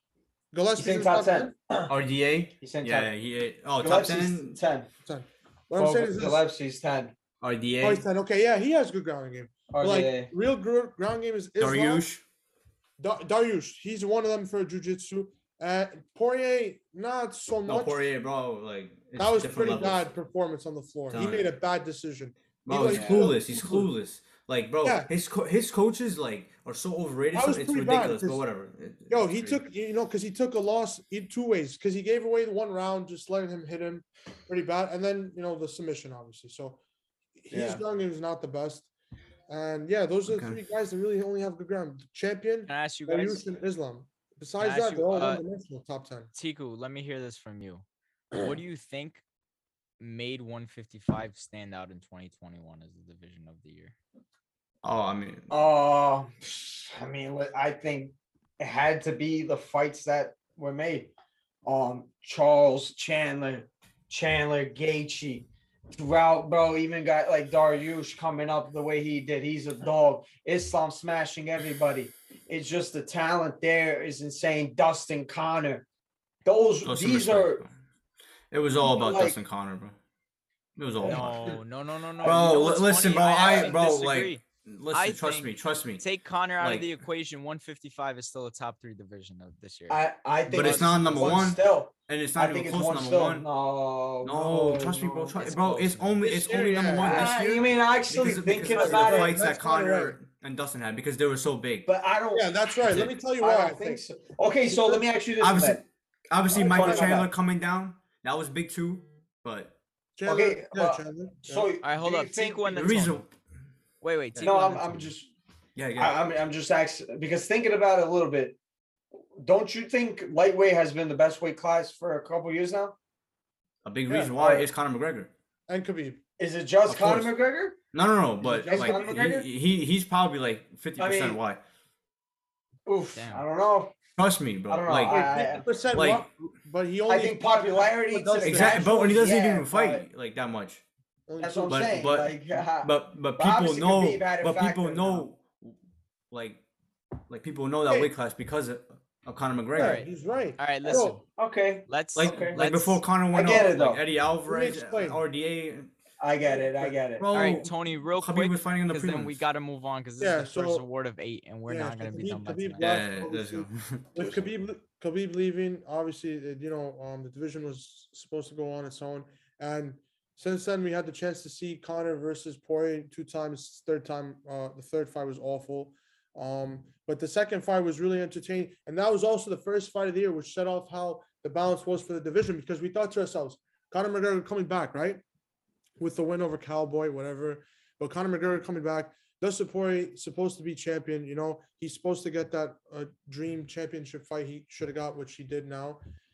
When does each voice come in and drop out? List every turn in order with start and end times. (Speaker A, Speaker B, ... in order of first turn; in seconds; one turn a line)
Speaker A: 0.5-1.5
Speaker B: 0.8-1.9
Speaker C: 1.9-4.6
Speaker B: 2.6-3.1
Speaker B: 3.8-4.9
Speaker A: 5.0-6.4
Speaker B: 5.8-7.1
Speaker C: 7.4-8.0
Speaker A: 7.8-12.0
Speaker B: 9.7-10.3
Speaker C: 11.6-12.2
Speaker A: 13.0-18.0
Speaker C: 17.6-20.1
Speaker A: 19.2-23.9
Speaker C: 21.1-21.5
Speaker C: 22.6-29.6
Speaker B: 22.9-23.3
Speaker A: 24.8-25.1
Speaker A: 27.3-28.4
Speaker A: 29.1-36.8
Speaker A: 37.4-38.9
Speaker B: 37.5-37.8
Speaker A: 39.5-46.3
Speaker C: 40.3-40.6
Speaker D: 42.7-43.4
Speaker D: 44.6-45.4
Speaker D: 46.3-49.2
Speaker D: 50.0-53.9
Speaker C: 54.8-55.5
Speaker B: 55.5-61.1
Speaker B: 61.6-75.8
Speaker B: 76.4-77.6
Speaker C: 76.8-77.7
Speaker C: 78.5-80.0
Speaker B: 78.8-79.4
Speaker C: 80.8-81.5
Speaker B: 81.0-81.3
Speaker D: 81.0-91.5
Speaker B: 82.2-83.8
Speaker C: 82.2-86.0
Speaker C: 86.6-87.0
Speaker B: 89.9-95.4
Speaker C: 90.5-93.5
Speaker C: 94.2-101.9
Speaker D: 95.4-96.2
Speaker A: 96.2-97.3
Speaker B: 96.9-99.4
Speaker A: 98.7-100.2
Speaker B: 101.8-105.8
Speaker A: 102.3-104.0
Speaker C: 102.8-103.1
Speaker A: 104.7-105.0
Speaker C: 105.4-109.8
Speaker B: 106.5-107.3
Speaker A: 106.7-107.2
Speaker A: 110.2-111.7
Speaker B: 110.2-112.9
Speaker D: 111.8-113.2
Speaker C: 112.7-113.3
Speaker D: 114.0-115.1
Speaker B: 114.4-115.3
Speaker C: 115.8-116.3
Speaker B: 116.0-118.6
Speaker B: 119.4-123.0
Speaker C: 123.8-125.3
Speaker A: 124.1-124.7
Speaker A: 125.7-126.2
Speaker B: 126.4-127.8
Speaker C: 126.9-127.3
Speaker C: 127.9-131.6
Speaker B: 128.4-129.5
Speaker A: 128.5-129.3
Speaker B: 131.0-131.4
Speaker B: 132.8-133.9
Speaker D: 133.1-133.4
Speaker C: 134.2-136.2
Speaker B: 134.7-135.7
Speaker A: 135.1-138.8
Speaker B: 137.1-140.0
Speaker C: 138.4-140.8
Speaker A: 141.3-141.8
Speaker B: 141.4-145.2
Speaker C: 141.6-145.8
Speaker C: 146.3-146.6
Speaker C: 147.3-150.0
Speaker A: 147.9-148.1
Speaker A: 149.8-151.2
Speaker D: 149.8-151.2
Speaker B: 150.8-152.6
Speaker D: 151.9-153.0
Speaker C: 152.1-155.9
Speaker B: 153.3-154.0
Speaker A: 154.5-155.2
Speaker B: 156.2-157.3
Speaker C: 157.2-159.4
Speaker D: 157.3-162.9
Speaker A: 160.2-160.8
Speaker A: 161.7-185.2
Speaker C: 162.8-164.1
Speaker B: 164.2-164.4
Speaker A: 186.0-196.0